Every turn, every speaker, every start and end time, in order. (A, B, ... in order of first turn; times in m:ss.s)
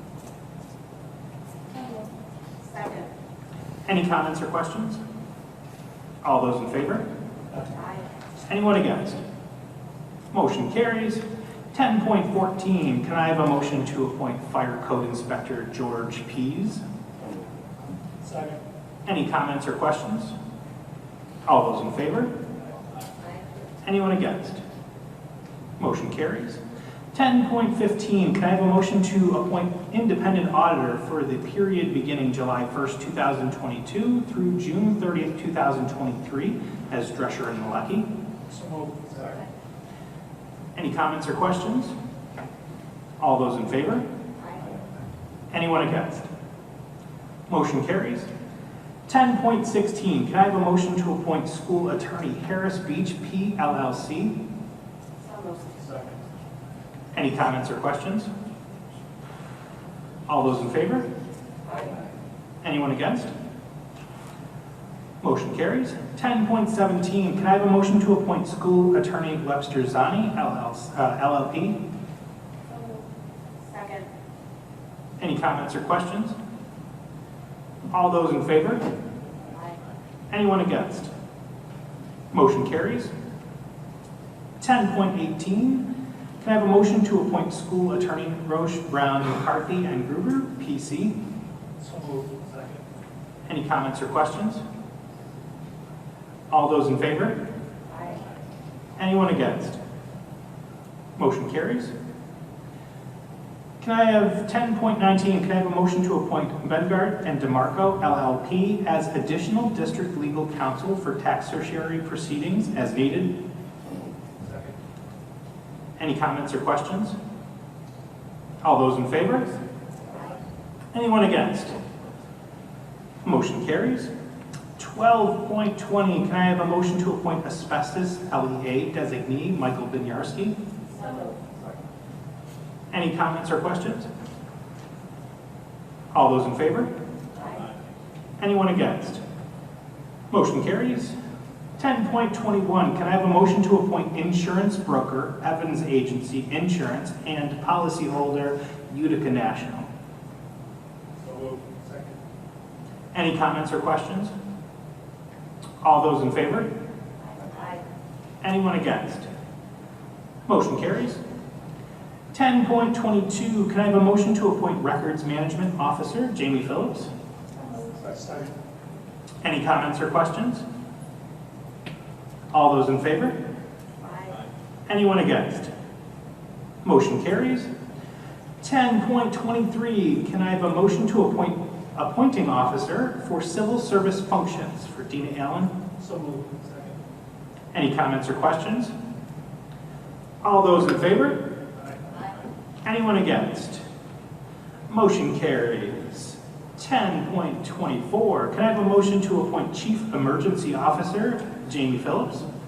0:02.6-0:03.1 A
0:03.8-0:05.0 B
0:06.2-0:07.0 B
0:07.7-0:08.0 A
0:08.5-0:09.2 B
0:10.3-0:16.8 B
0:18.2-0:18.6 C
0:19.0-0:20.4 B
0:21.4-0:22.3 B
0:23.8-0:24.6 B
0:25.8-0:26.6 B
0:27.1-0:38.1 B
0:38.5-0:39.4 C
0:40.7-0:41.9 B
0:43.2-0:44.0 B
0:45.5-0:46.3 B
0:47.5-0:48.3 B
0:49.1-0:54.4 B
0:55.2-0:56.1 A
0:57.1-0:58.3 B
1:00.3-1:01.1 B
1:01.7-1:01.9 A
1:02.6-1:03.3 B
1:05.2-1:11.8 B
1:13.7-1:14.1 A
1:15.2-1:16.4 B
1:17.9-1:18.9 B
1:20.3-1:21.1 B
1:22.3-1:23.1 B
1:24.6-1:25.9 B
1:26.4-1:31.2 B
1:31.8-1:32.8 C
1:33.5-1:34.6 B
1:36.5-1:37.4 B
1:37.9-1:38.2 A
1:39.0-1:39.8 B
1:41.2-1:41.9 B
1:43.8-1:53.3 B
1:54.4-1:54.8 C
1:56.0-1:57.2 B
1:58.6-1:59.6 B
2:00.9-2:01.8 B
2:03.2-2:04.1 B
2:04.8-2:10.6 B
2:10.9-2:11.4 A
2:12.9-2:14.1 B
2:16.1-2:16.9 B
2:17.4-2:17.6 A
2:18.4-2:19.2 B
2:20.3-2:21.2 B
2:21.8-2:29.9 B
2:31.2-2:32.2 C
2:33.1-2:34.3 B
2:35.8-2:36.7 B
2:37.3-2:37.8 A
2:38.4-2:39.3 B
2:40.4-2:41.2 B
2:42.3-2:47.1 B
2:47.6-2:47.9 A
2:48.0-2:48.5 C
2:49.4-2:50.6 B
2:52.5-2:53.4 B
2:54.0-2:54.4 A
2:54.9-2:55.7 B
2:56.8-2:57.7 B
2:58.6-3:05.8 B
3:06.0-3:07.0 C
3:07.7-3:08.9 B
3:10.4-3:11.4 B
3:12.8-3:13.8 B
3:14.9-3:22.5 B